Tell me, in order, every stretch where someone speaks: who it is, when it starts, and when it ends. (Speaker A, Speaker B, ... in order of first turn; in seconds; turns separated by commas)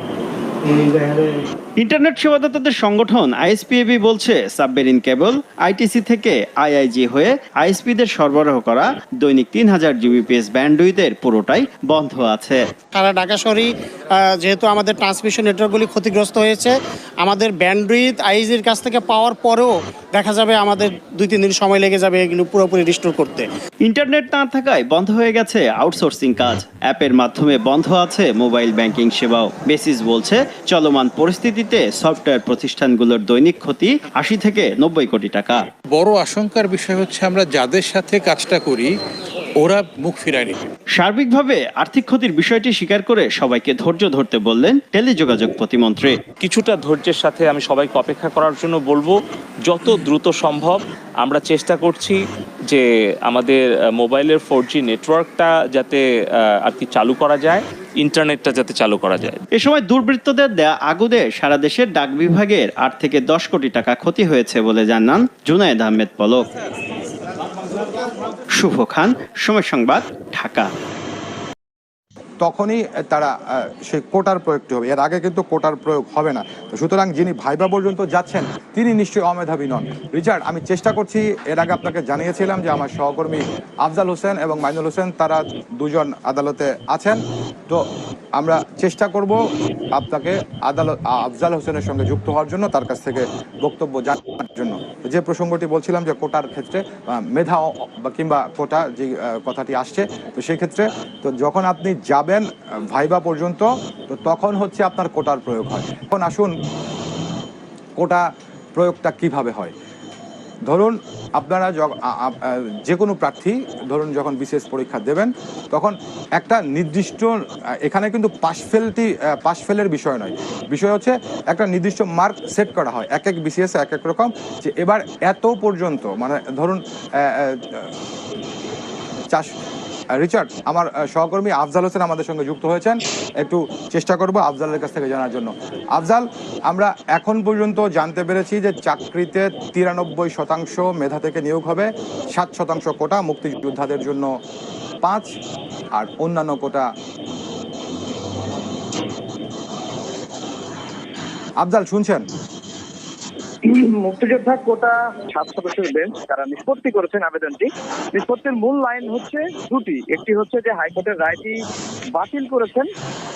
Speaker A: 0.8-1.2, Speaker B: 1.8-12.6, Speaker A: 12.9-13.7, Speaker A: 14.2-23.5, Speaker B: 23.8-35.6, Speaker C: 35.9-38.9, Speaker C: 39.6-40.6, Speaker B: 41.0-46.1, Speaker D: 46.4-56.0, Speaker D: 56.6-59.4, Speaker B: 59.5-66.5, Speaker B: 68.6-70.7, Speaker E: 72.4-73.3, Speaker E: 73.9-87.8, Speaker E: 88.4-89.3, Speaker E: 89.9-106.5, Speaker E: 108.0-108.2, Speaker E: 108.8-109.7, Speaker E: 110.7-127.9, Speaker E: 130.2-144.3, Speaker E: 145.0-145.3, Speaker E: 145.9-146.8, Speaker E: 151.6-152.2, Speaker F: 153.6-161.6, Speaker F: 162.1-162.9